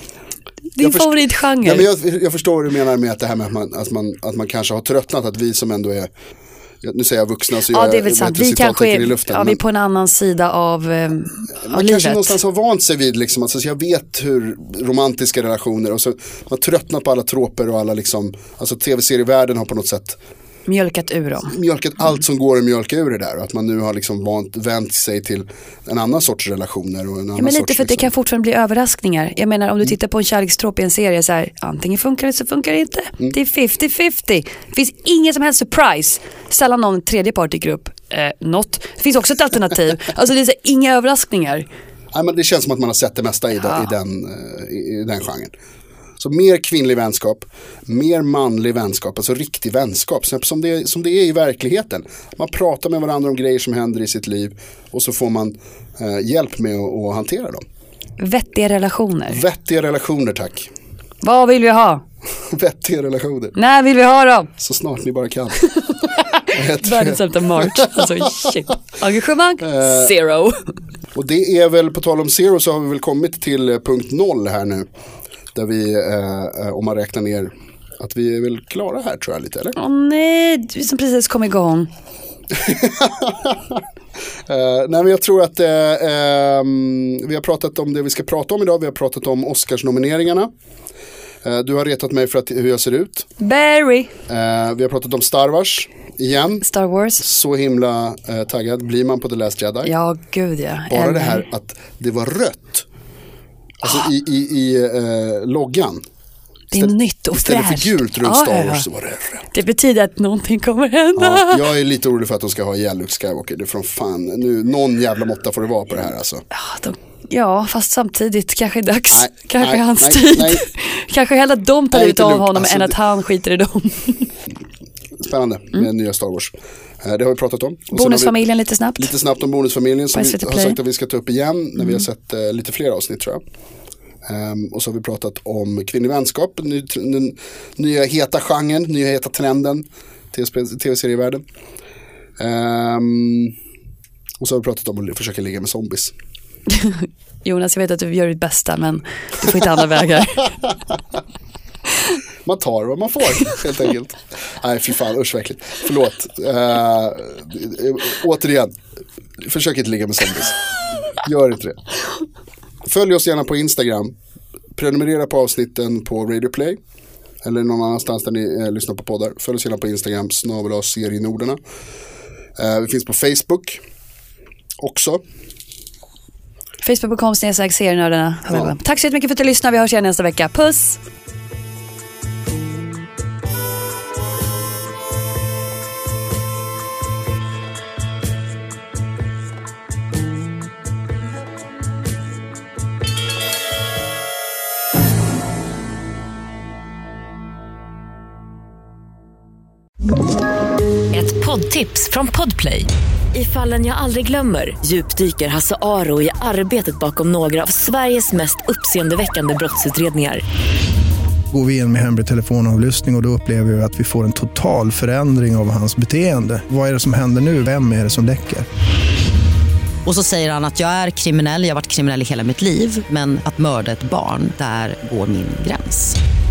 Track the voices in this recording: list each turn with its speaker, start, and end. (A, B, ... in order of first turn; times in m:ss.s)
0:00.8-0:01.9 A
0:00.8-0:06.1 B
0:06.8-0:09.6 B
0:07.7-0:12.4 A
0:11.6-0:20.2 B
0:20.7-0:21.5 A
0:21.5-0:28.1 B
0:27.4-0:41.7 A
0:42.1-0:45.5 B
0:46.2-0:57.6 B
0:58.2-0:59.4 A
0:59.3-1:00.7 B
1:01.2-1:02.0 A
1:02.5-1:03.5 B
1:03.6-1:04.5 A
1:04.6-1:05.6 B
1:05.8-1:10.7 A
1:06.5-1:08.5 B
1:09.6-1:10.1 B
1:11.1-1:14.8 B
1:15.5-1:19.8 B
1:19.8-1:21.9 A
1:22.5-1:23.8 B
1:24.5-1:30.5 B
1:31.4-1:33.3 B
1:33.4-1:34.1 A
1:34.3-1:36.6 B
1:36.6-1:37.2 A
1:37.2-1:39.9 B
1:39.8-1:41.4 A
1:40.9-1:42.8 B
1:43.8-1:46.0 B
1:46.7-1:48.8 A
1:46.7-1:49.5 B
1:49.5-1:51.6 A
1:51.2-1:56.4 B
1:56.5-2:04.3 A
1:59.1-2:00.6 B
2:01.9-2:03.0 B
2:05.2-2:08.3 B
2:07.9-2:09.1 A
2:09.0-2:13.4 B
2:10.1-2:10.8 A
2:14.2-2:21.4 B
2:22.4-2:23.5 B
2:24.4-2:26.1 B
2:26.7-2:30.5 A
2:32.4-2:38.7 B
2:39.4-2:40.6 B
2:41.2-2:41.8 B
2:42.8-2:44.1 B
2:44.7-2:46.8 B
2:47.4-2:51.6 B
2:52.6-2:53.8 B
2:54.8-2:55.2 B
2:56.8-3:01.0 A
3:21.1-3:30.4 C
3:31.5-3:38.6 D
3:40.0-3:46.2 E